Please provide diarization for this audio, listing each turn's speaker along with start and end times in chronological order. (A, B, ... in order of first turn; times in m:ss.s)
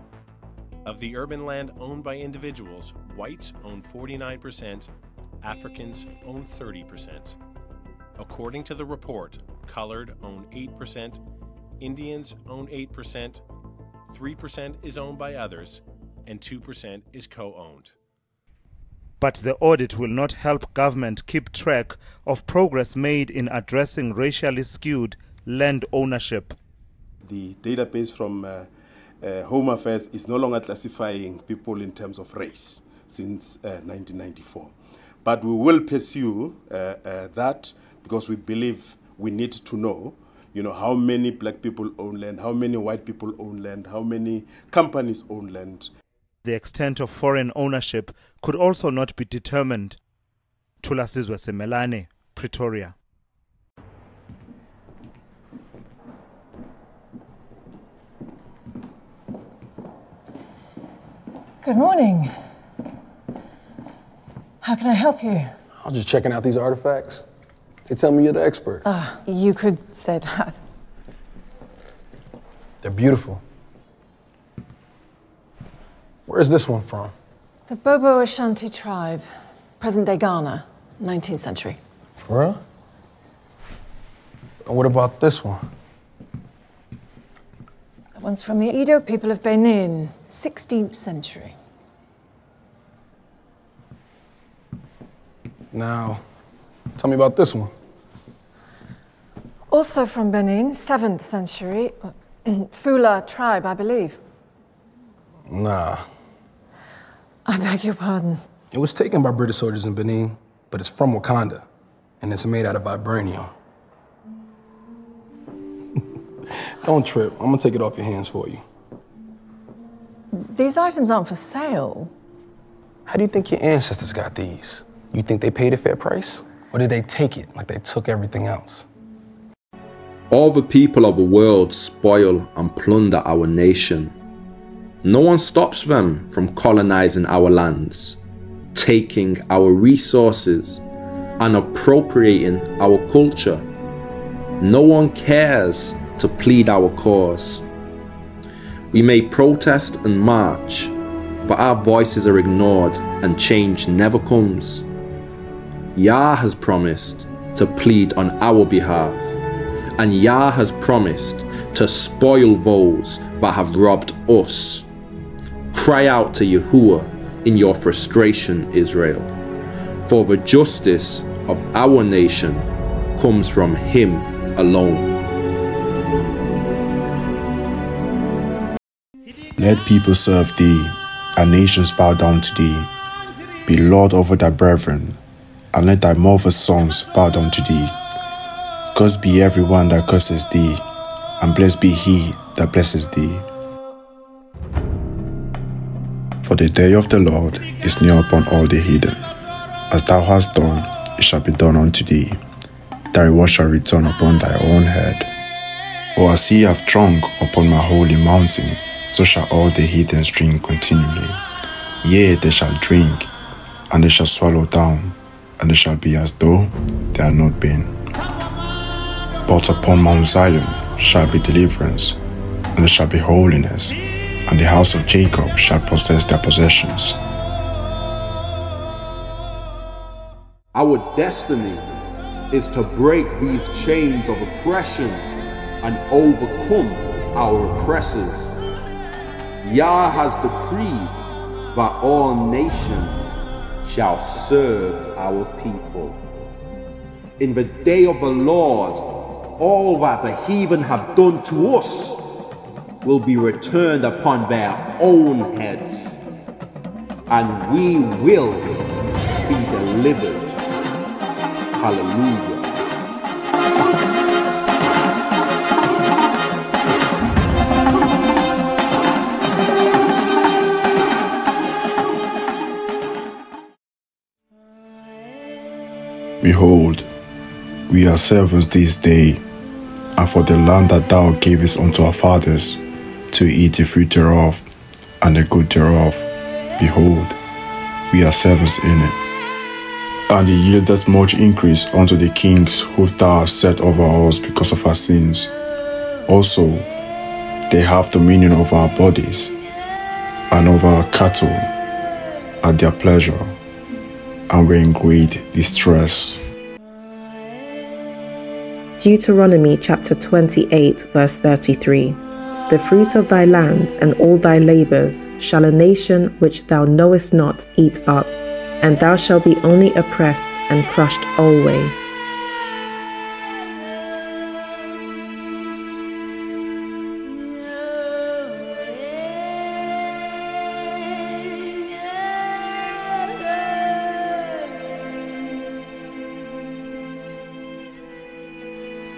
0:00.8-0:04.9 A
0:05.4-0:07.4 A
0:08.2-0:11.2 A
0:11.8-0:13.4 A
0:14.1-0:17.9 A
0:19.2-0:26.5 B
0:27.2-0:28.7 C
0:29.2-0:34.7 C
0:35.2-0:45.9 C
0:46.4-0:50.0 B
0:50.8-0:52.9 B
1:01.6-1:02.3 D
1:04.6-1:05.5 D
1:05.8-1:07.2 E
1:07.9-1:08.8 E
1:08.8-1:10.6 D
1:12.8-1:13.4 E
1:16.3-1:17.1 E
1:17.7-1:19.3 D
1:19.8-1:21.8 D
1:22.2-1:22.6 E
1:24.6-1:25.6 E
1:28.2-1:31.6 D
1:35.7-1:36.2 E
1:37.0-1:37.7 E
1:39.7-1:44.2 D
1:45.5-1:46.0 E
1:47.4-1:48.4 D
1:48.7-1:51.6 E
1:52.2-1:53.5 E
1:56.8-1:58.6 E
2:00.3-2:02.1 D
2:03.1-2:08.8 E
2:10.3-2:14.1 F
2:15.0-2:18.2 F
2:18.7-2:20.8 F
2:21.4-2:23.6 F
2:24.6-2:27.6 F
2:28.9-2:34.8 F
2:35.9-2:39.2 F
2:40.0-2:44.8 F
2:45.7-2:49.3 F
2:50.0-2:55.1 F
2:59.6-3:02.9 G
3:03.6-3:05.2 G
3:05.7-3:07.9 G
3:08.9-3:10.8 G
3:11.4-3:13.4 G
3:16.4-3:19.2 G
3:19.9-3:22.4 G
3:23.1-3:25.3 G
3:26.2-3:31.4 G
3:32.0-3:33.3 G
3:33.9-3:37.9 G
3:39.4-3:42.2 G
3:42.8-3:44.0 G
3:44.5-3:47.2 G
3:50.7-3:52.0 F
3:52.5-3:55.2 F
3:55.8-3:58.5 F
3:59.6-4:01.2 F
4:01.7-4:06.2 F
4:07.4-4:12.3 F
4:13.0-4:16.2 F
4:17.3-4:20.6 F
4:21.8-4:22.7 F
4:36.4-4:37.1 G
4:37.9-4:39.4 G
4:40.2-4:42.8 G
4:43.3-4:44.6 G
4:45.2-4:46.3 G
4:46.8-4:47.4 G
4:48.1-4:49.2 G
4:50.3-4:55.5 G
4:56.3-4:56.9 G
4:57.7-4:59.5 G
5:00.5-5:01.7 G
5:02.6-5:03.5 G
5:04.5-5:06.4 G
5:09.0-5:21.9 H